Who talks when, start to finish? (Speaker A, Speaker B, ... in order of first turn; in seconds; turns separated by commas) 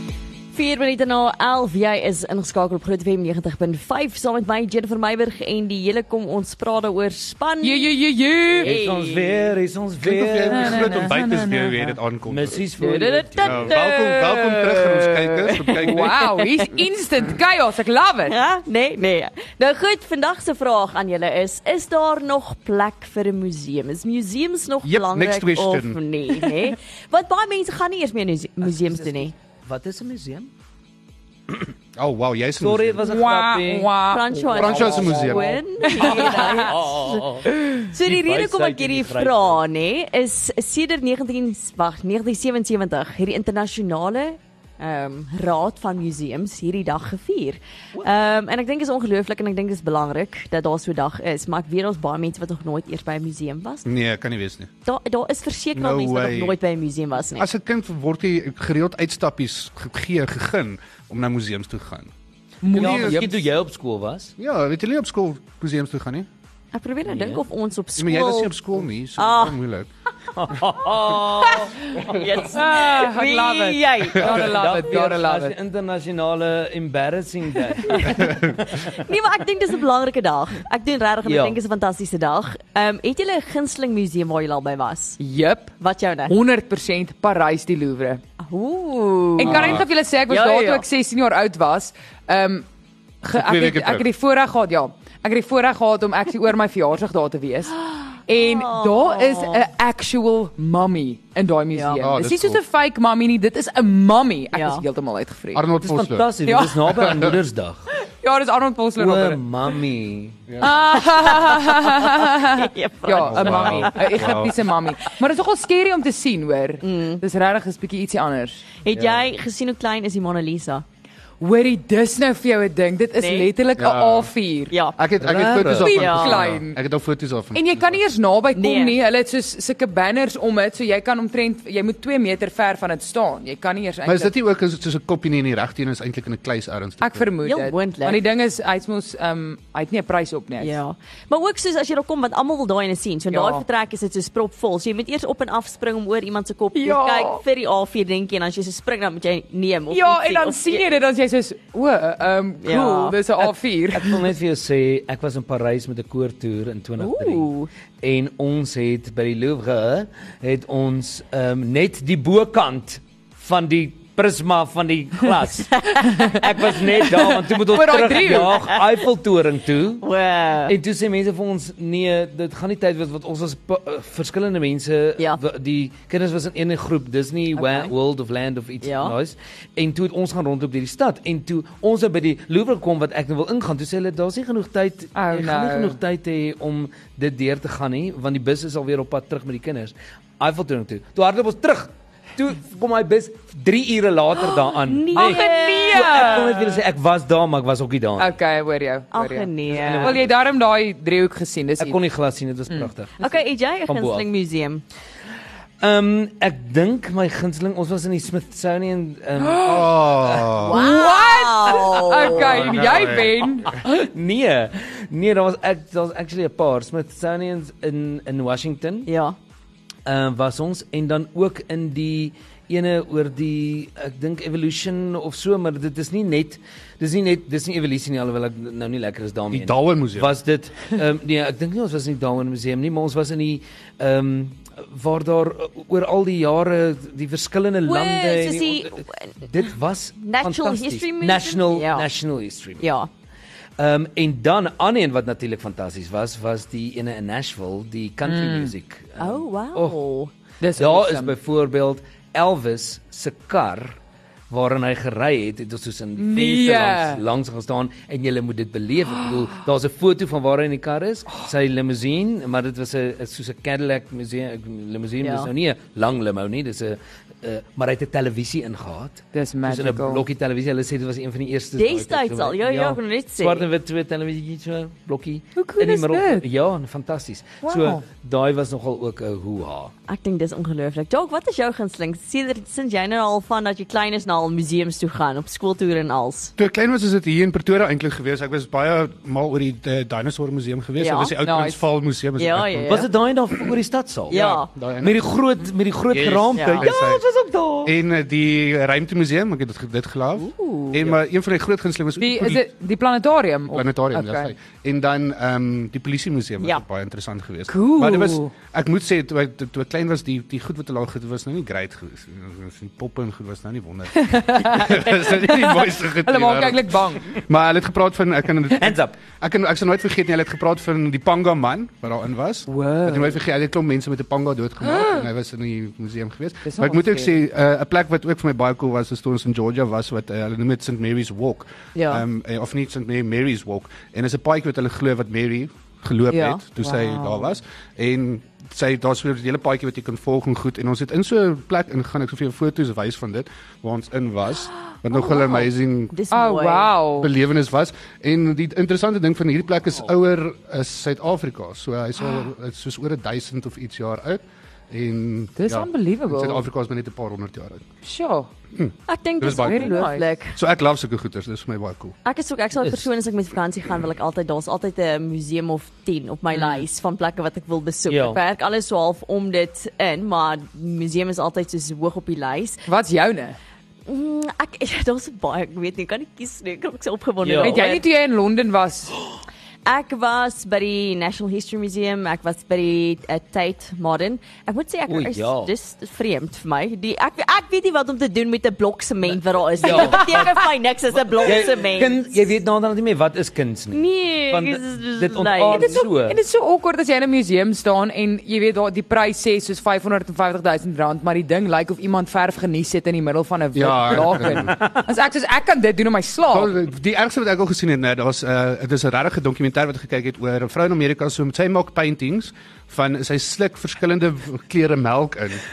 Speaker A: 0.5-7.9, Speaker B: 7.6-8.7, Speaker A: 8.6-9.5, Speaker C: 8.6-11.1, Speaker D: 10.0-12.6, Speaker B: 10.5-11.9, Speaker C: 12.3-13.8, Speaker A: 12.8-16.6, Speaker D: 13.4-16.3, Speaker B: 15.8-18.3, Speaker A: 18.3-29.3, Speaker D: 24.8-26.0, Speaker C: 28.6-30.5, Speaker D: 31.9-33.0, Speaker C: 32.6-33.9, Speaker B: 33.0-35.1, Speaker A: 34.1-37.2, Speaker C: 34.5-37.5, Speaker D: 34.5-35.6, Speaker B: 35.9-36.7, Speaker A: 37.8-53.9, Speaker C: 38.0-39.6, Speaker D: 53.8-54.7, Speaker A: 54.8-57.5, Speaker D: 55.8-56.6, Speaker D: 57.4-62.1, Speaker B: 62.6-63.3, Speaker C: 62.7-64.3, Speaker D: 62.7-63.3, Speaker D: 64.4-66.3, Speaker A: 66.7-68.6, Speaker C: 67.1-67.4, Speaker D: 68.0-69.9, Speaker A: 69.2-69.6, Speaker C: 70.3-72.5, Speaker A: 71.1-74.4, Speaker B: 72.5-75.5, Speaker C: 74.2-79.0, Speaker A: 77.9-85.2, Speaker C: 81.2-81.6, Speaker B: 85.2-85.8, Speaker A: 85.8-86.3, Speaker B: 86.3-88.2, Speaker A: 88.4-90.8, Speaker B: 89.4-92.7, Speaker D: 89.4-89.9, Speaker B: 93.2-97.7, Speaker D: 93.3-94.1, Speaker A: 97.9-99.7, Speaker B: 98.3-105.7, Speaker A: 101.7-102.1, Speaker D: 102.0-102.6, Speaker A: 104.5-104.8, Speaker D: 105.5-106.3, Speaker C: 105.8-107.9, Speaker B: 106.5-107.3, Speaker D: 106.9-107.3, Speaker B: 108.2-109.4, Speaker C: 109.0-110.4, Speaker D: 110.5-110.8, Speaker B: 110.6-118.6, Speaker A: 111.1-114.3, Speaker D: 113.2-114.5, Speaker A: 116.8-117.2, Speaker A: 118.8-120.8, Speaker B: 121.4-124.7, Speaker A: 123.2-123.5, Speaker D: 123.8-124.3, Speaker A: 124.7-125.0, Speaker D: 125.0-128.0, Speaker C: 125.2-125.9, Speaker B: 125.8-126.8, Speaker A: 125.8-126.4, Speaker B: 127.5-134.3, Speaker A: 128.5-129.0, Speaker D: 134.1-137.2, Speaker B: 137.0-140.8, Speaker A: 137.4-138.2, Speaker A: 140.6-150.9, Speaker B: 143.3-143.6, Speaker B: 146.7-147.4, Speaker B: 149.9-154.2, Speaker A: 152.6-153.2, Speaker C: 153.9-157.5, Speaker A: 157.0-157.7, Speaker C: 158.0-170.0, Speaker B: 166.0-168.6, Speaker A: 170.0-170.7, Speaker C: 170.7-198.3, Speaker B: 177.6-177.9, Speaker A: 178.8-179.1, Speaker B: 185.2-186.0, Speaker A: 194.7-196.4, Speaker B: 195.1-196.8, Speaker B: 198.2-202.0, Speaker A: 199.1-200.2, Speaker C: 199.7-200.3, Speaker C: 201.8-203.2, Speaker B: 202.7-203.3, Speaker A: 203.2-204.8, Speaker C: 203.9-204.2, Speaker C: 205.8-210.5, Speaker B: 209.4-209.9, Speaker D: 209.6-210.8, Speaker A: 210.6-212.8, Speaker B: 210.6-213.9, Speaker D: 212.4-213.6, Speaker C: 213.7-219.1, Speaker A: 219.1-219.3, Speaker C: 220.0-242.8, Speaker D: 229.5-230.3, Speaker A: 237.8-239.3, Speaker A: 240.2-242.1, Speaker A: 242.8-243.1, Speaker C: 243.8-250.0, Speaker B: 248.2-248.7, Speaker A: 249.2-250.3, Speaker B: 250.6-251.3, Speaker C: 250.8-254.0, Speaker C: 254.5-279.9, Speaker B: 256.2-257.2, Speaker A: 265.2-265.5, Speaker B: 269.3-270.2, Speaker A: 271.8-273.6, Speaker B: 275.6-276.4, Speaker B: 277.6-278.0, Speaker A: 280.1-286.5, Speaker D: 286.6-293.1, Speaker A: 291.0-291.3, Speaker B: 291.4-291.8, Speaker A: 292.4-293.1, Speaker C: 292.9-294.4, Speaker A: 294.3-294.7, Speaker D: 294.3-295.1, Speaker C: 295.0-297.9, Speaker D: 296.1-297.2, Speaker A: 296.5-296.9, Speaker D: 297.8-302.7, Speaker A: 300.4-301.0, Speaker B: 302.2-304.5, Speaker D: 303.7-346.1, Speaker B: 307.7-308.5, Speaker B: 314.2-317.4, Speaker C: 318.7-319.1, Speaker B: 322.7-323.4, Speaker B: 324.9-325.2, Speaker B: 326.6-327.3, Speaker A: 331.9-332.2, Speaker A: 336.3-336.6, Speaker B: 336.8-337.6, Speaker A: 345.1-346.9, Speaker B: 346.3-347.3, Speaker D: 347.2-357.8, Speaker B: 355.6-356.6, Speaker B: 358.0-358.5, Speaker D: 358.7-359.9, Speaker A: 359.1-360.6, Speaker B: 359.5-360.3, Speaker D: 360.6-362.1, Speaker A: 362.2-372.8, Speaker C: 362.8-363.1, Speaker B: 366.6-366.8, Speaker C: 368.1-368.4, Speaker B: 372.9-373.6, Speaker A: 374.1-378.1, Speaker C: 377.4-377.9, Speaker B: 377.6-379.1, Speaker A: 379.8-392.4, Speaker C: 385.1-385.7, Speaker C: 389.8-396.4, Speaker B: 389.9-390.6, Speaker A: 393.9-396.0, Speaker B: 395.7-406.7, Speaker D: 403.7-404.8, Speaker C: 404.1-405.1, Speaker D: 406.5-415.6